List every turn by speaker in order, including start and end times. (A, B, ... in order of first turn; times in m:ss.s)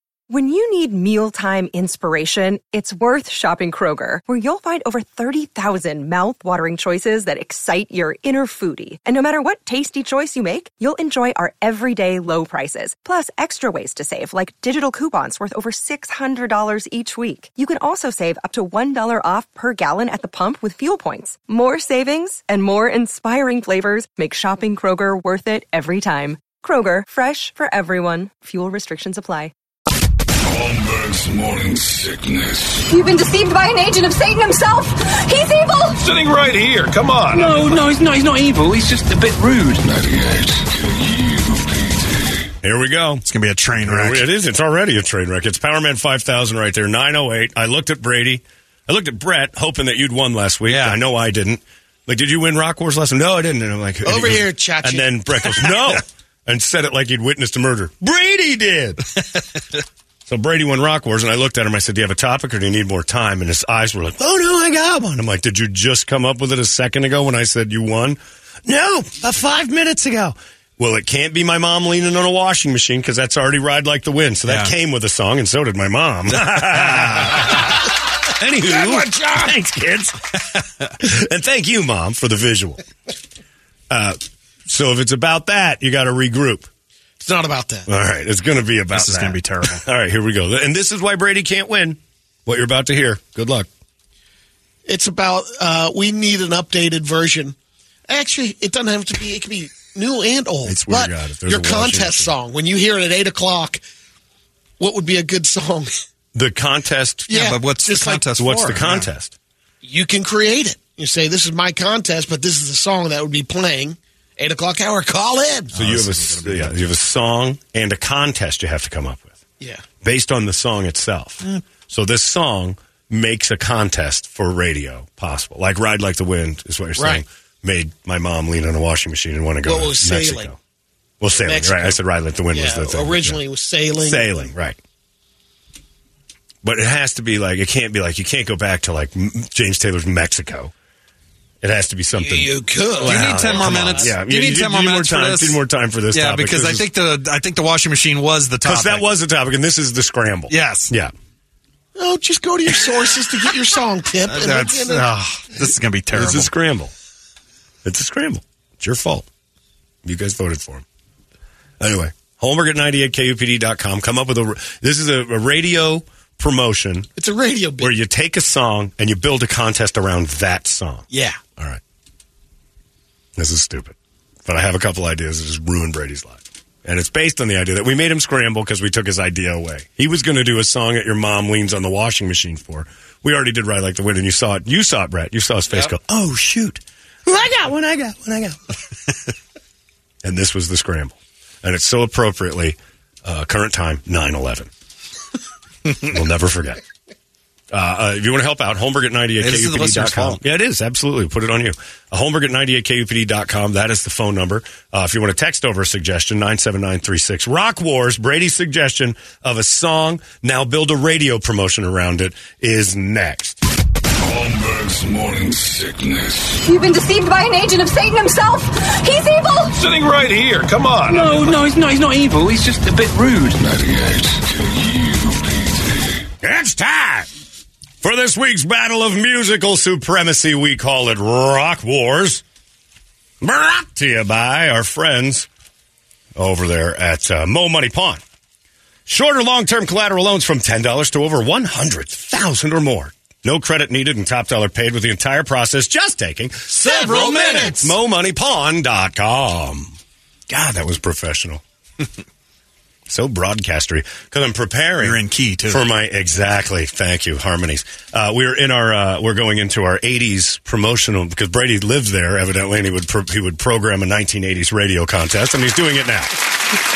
0:00.3-0:29.5 A
0:30.4-0:32.9 B
0:32.9-0:36.0 C
0:36.0-0:37.8 B
0:37.3-0:39.8 D
0:38.8-0:39.1 B
0:39.7-0:42.5 B
0:42.6-0:43.2 E
0:43.2-0:44.2 F
0:43.8-0:59.1 E
0:50.7-0:51.0 F
0:54.0-0:56.0 G
1:00.3-1:17.8 E
1:14.5-1:14.7 F
1:16.8-1:17.1 F
1:18.3-1:20.3 E
1:18.6-1:19.5 G
1:21.0-1:22.8 E
1:23.9-1:26.7 E
1:27.2-1:27.9 G
1:27.9-1:33.7 E
1:28.9-1:29.8 F
1:34.8-1:37.5 G
1:38.1-1:43.8 G
1:40.6-1:42.3 E
1:44.8-1:45.9 G
1:46.3-1:47.5 E
1:47.3-1:49.1 F
1:47.3-1:48.2 G
1:48.4-1:49.3 E
1:49.8-1:55.8 G
1:55.7-1:56.8 F
1:55.7-1:59.4 E
2:00.0-2:10.6 E
2:07.0-2:07.2 G
2:09.6-2:10.5 G
2:11.2-2:13.4 E
2:11.3-2:12.0 G
2:12.5-2:14.5 G
2:14.0-2:14.8 E
2:16.6-2:20.7 E
2:21.6-2:26.9 E
2:22.2-2:23.9 G
2:23.0-2:25.6 F
2:26.1-2:29.0 F
2:28.6-2:31.1 E
2:30.5-2:30.9 F
2:32.0-2:35.1 G
2:34.3-2:36.5 F
2:36.1-2:36.9 E
2:37.8-2:39.3 E
2:40.0-2:40.8 E
2:41.8-2:47.1 E
2:47.2-2:47.9 G
2:47.8-2:51.8 E
2:51.1-2:51.4 G
2:53.4-3:08.7 E
3:10.2-3:14.7 E
3:16.0-3:16.8 E
3:17.7-3:33.6 E
3:19.4-3:20.4 F
3:34.2-3:36.6 B
3:36.6-3:39.7 C
3:39.8-3:41.4 B
3:41.0-3:43.5 D
3:43.5-3:46.3 B
3:46.4-3:47.3 E
3:48.0-3:52.4 E
3:53.4-3:55.5 E
3:56.4-3:58.2 E
3:59.1-4:10.0 E
4:06.7-4:07.9 G
4:10.5-4:11.6 E
4:13.1-4:26.3 E
4:15.0-4:15.8 F